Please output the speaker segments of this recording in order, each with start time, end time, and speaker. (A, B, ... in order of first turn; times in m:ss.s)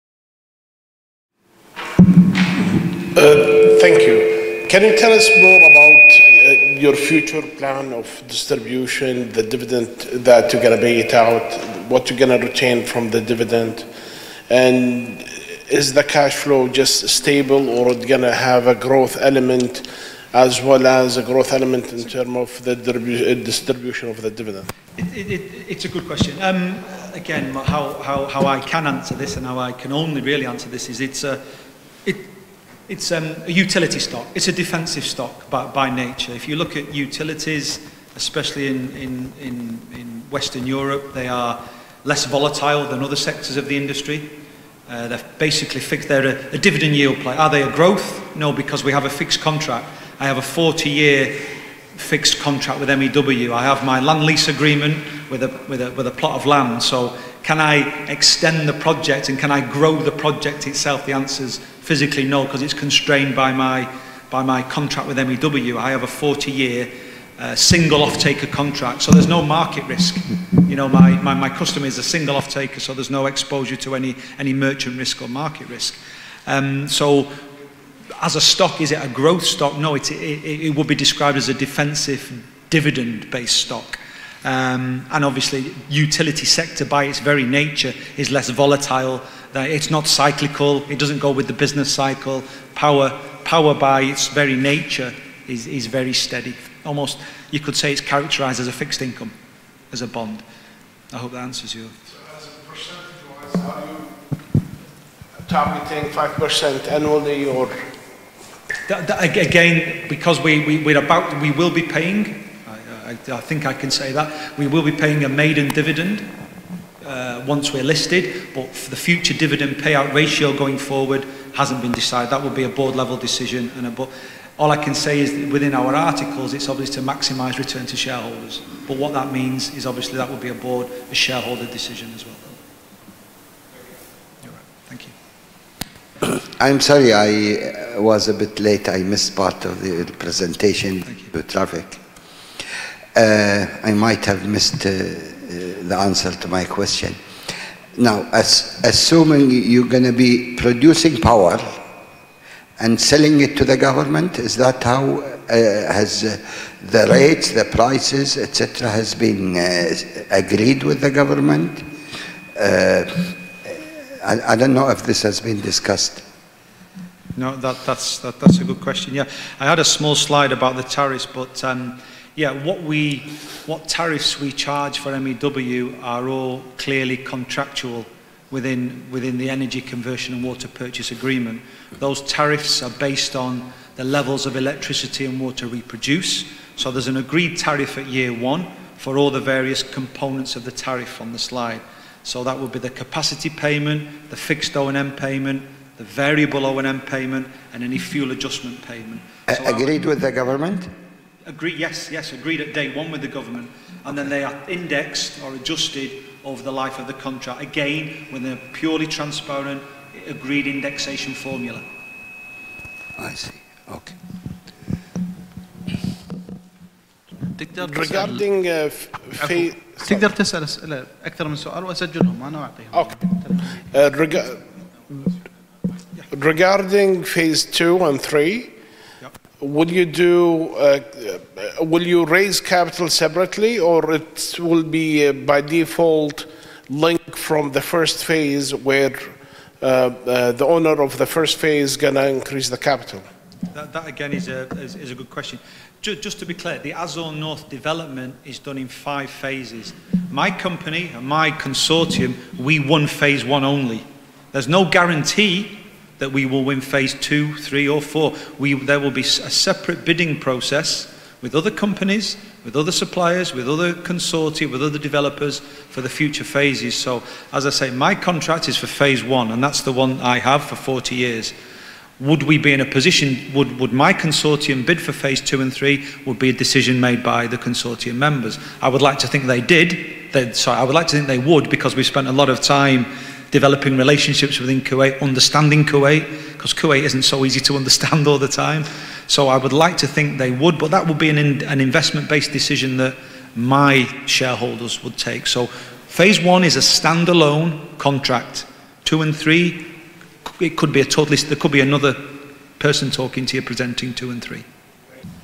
0:03.1-0:13.9 A
0:14.5-0:24.7 A
0:25.0-0:31.4 B
0:32.0-0:32.3 B
0:32.9-0:44.3 B
0:44.9-1:17.3 B
1:18.2-1:39.3 B
1:39.9-1:40.4 B
1:41.1-1:41.9 B
1:42.2-1:44.2 A
1:45.4-1:47.9 A
1:48.9-1:56.3 B
1:57.0-2:12.6 B
2:14.4-2:15.1 B
2:16.6-2:22.0 C
2:23.1-2:27.2 C
2:28.0-2:31.8 C
2:32.8-2:41.9 C
2:42.6-2:46.2 C
2:47.4-3:19.9 B
3:19.5-3:20.9 C
3:21.4-3:31.8 B
3:33.2-3:34.2 C
3:37.5-3:38.4 D
3:37.8-3:40.1 A
3:39.4-3:43.8 D
3:42.9-3:43.2 A
3:43.9-3:44.6 A
3:46.3-3:48.7 A
3:49.6-4:03.2 A
4:03.7-4:31.5 B
4:32.2-4:59.9 B
5:00.5-5:04.6 B